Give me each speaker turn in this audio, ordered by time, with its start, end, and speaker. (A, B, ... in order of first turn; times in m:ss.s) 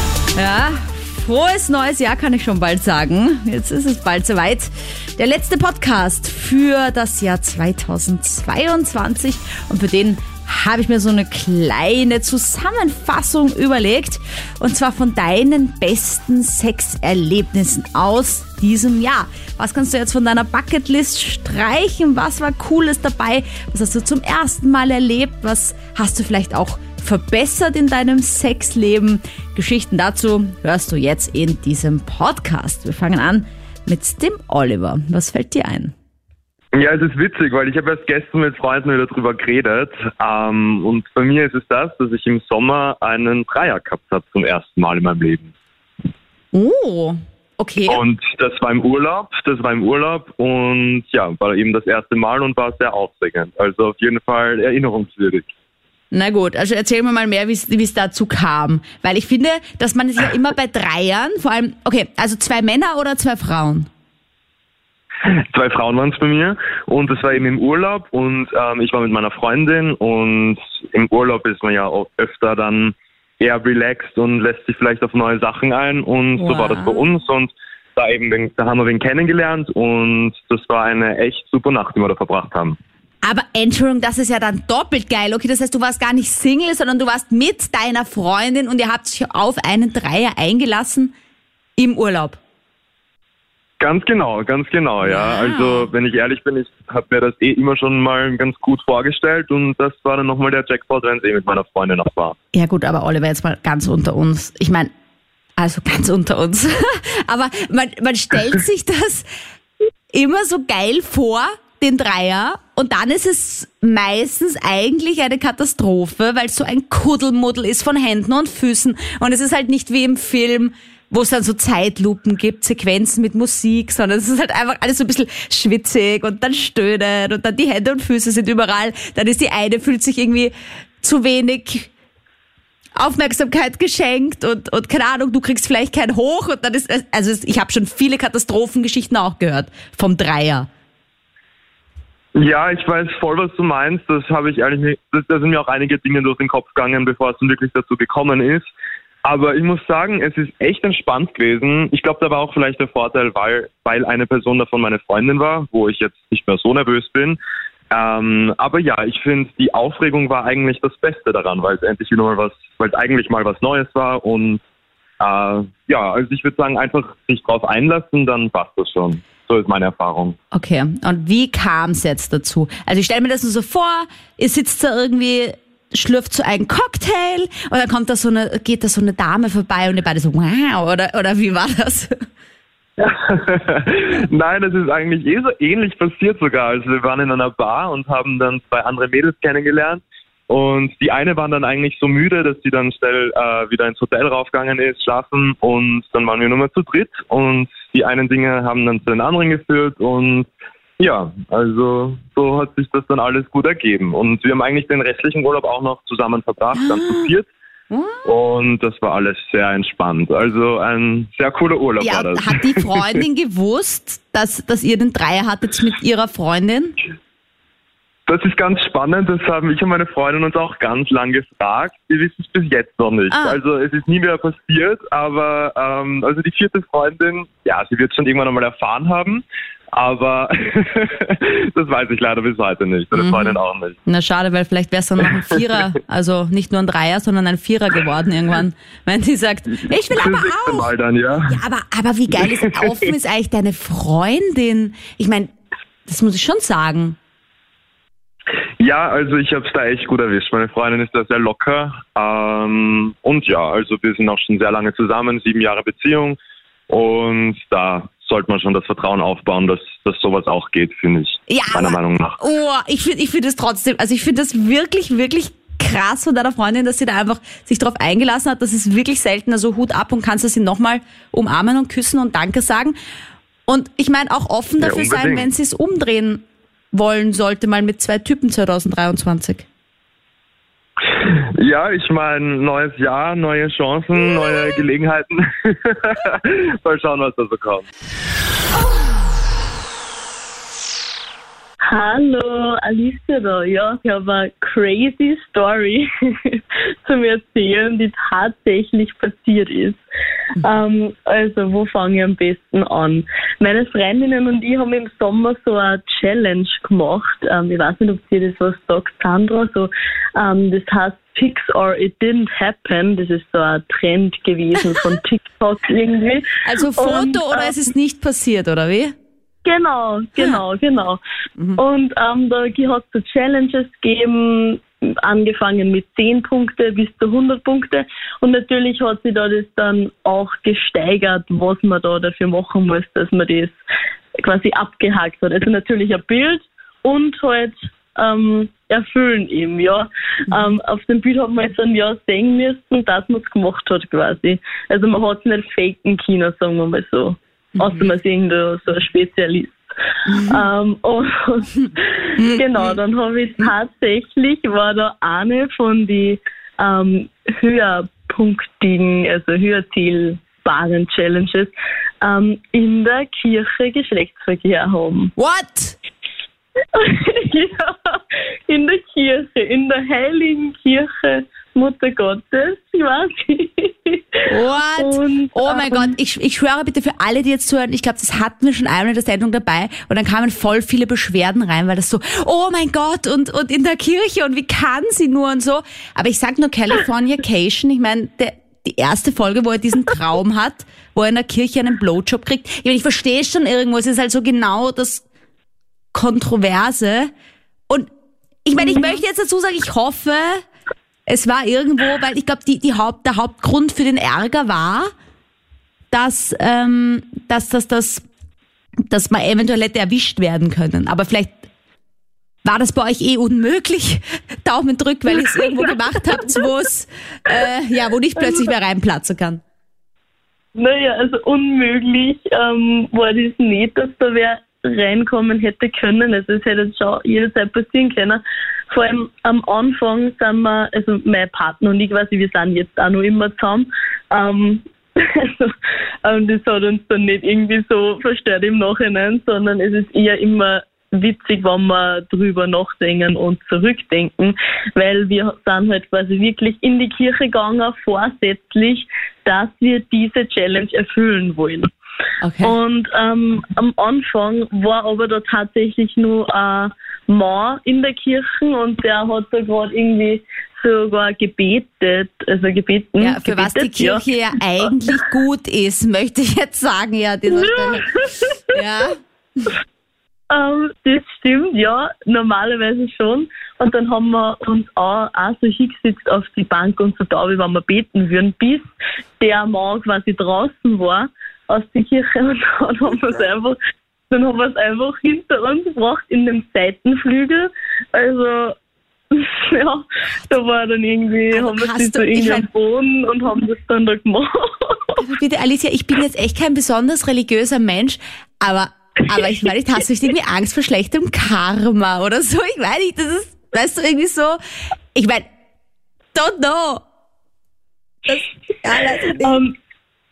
0:00.4-0:35.9 A
0:36.7-0:45.5 B
0:46.5-0:48.0 A
0:47.9-0:55.5 B
0:56.1-1:03.9 A
1:05.3-1:22.8 B
1:16.4-1:17.0 A
1:23.2-1:31.1 A
1:31.8-1:32.4 A
1:33.8-1:42.4 B
1:35.0-1:35.9 A
1:42.5-1:44.9 A
1:45.6-1:49.3 A
1:50.1-2:11.9 A
2:13.0-2:20.7 A
2:22.3-2:28.7 B
2:29.2-2:37.4 B
2:37.9-2:44.6 B
2:45.2-2:50.4 B
2:50.5-3:02.2 A
3:03.0-3:20.5 B
3:21.0-3:27.5 B
3:26.8-3:27.3 A
3:27.9-3:28.3 A
3:28.2-3:33.2 B
3:32.0-3:37.0 A
3:38.3-3:54.0 B
3:43.3-3:43.6 A
3:53.1-4:00.9 A
4:00.1-4:01.6 B
4:01.5-4:05.5 A
4:02.4-4:02.8 B
4:06.1-4:07.2 A
4:08.8-4:16.4 B
4:16.9-4:22.4 B
4:21.5-4:33.0 A
4:33.7-4:39.6 A
4:34.8-4:35.5 B
4:41.2-4:47.9 B
4:51.9-5:00.0 C
5:00.6-5:17.8 C
5:16.6-5:19.1 A
5:19.6-5:21.2 C
5:21.8-5:33.8 C
5:34.4-5:49.8 C
5:47.8-5:48.1 A
5:50.3-5:50.6 A
5:50.4-6:05.3 C
5:52.4-5:53.0 A
6:05.4-6:06.0 A
6:06.9-6:16.1 C
6:14.5-6:35.2 A
6:36.1-6:37.3 A
6:38.6-6:40.6 A
6:38.8-6:39.2 C
6:41.3-6:45.1 A
6:46.1-6:48.2 A
6:49.1-6:51.6 A
6:52.6-6:59.6 A
6:55.3-6:55.9 C
7:00.8-7:31.9 C
7:32.4-7:32.7 A
7:32.6-7:44.3 C
7:43.2-7:48.1 A
7:47.5-7:48.8 C
7:48.7-7:49.2 A
7:50.5-7:58.9 C
7:59.4-8:03.8 C
8:04.3-8:08.8 C
8:09.3-8:15.2 C
8:11.5-8:12.7 A
8:15.2-8:24.6 A
8:25.1-8:25.4 A
8:26.3-8:27.0 A
8:28.3-8:29.6 A
8:29.4-8:29.7 C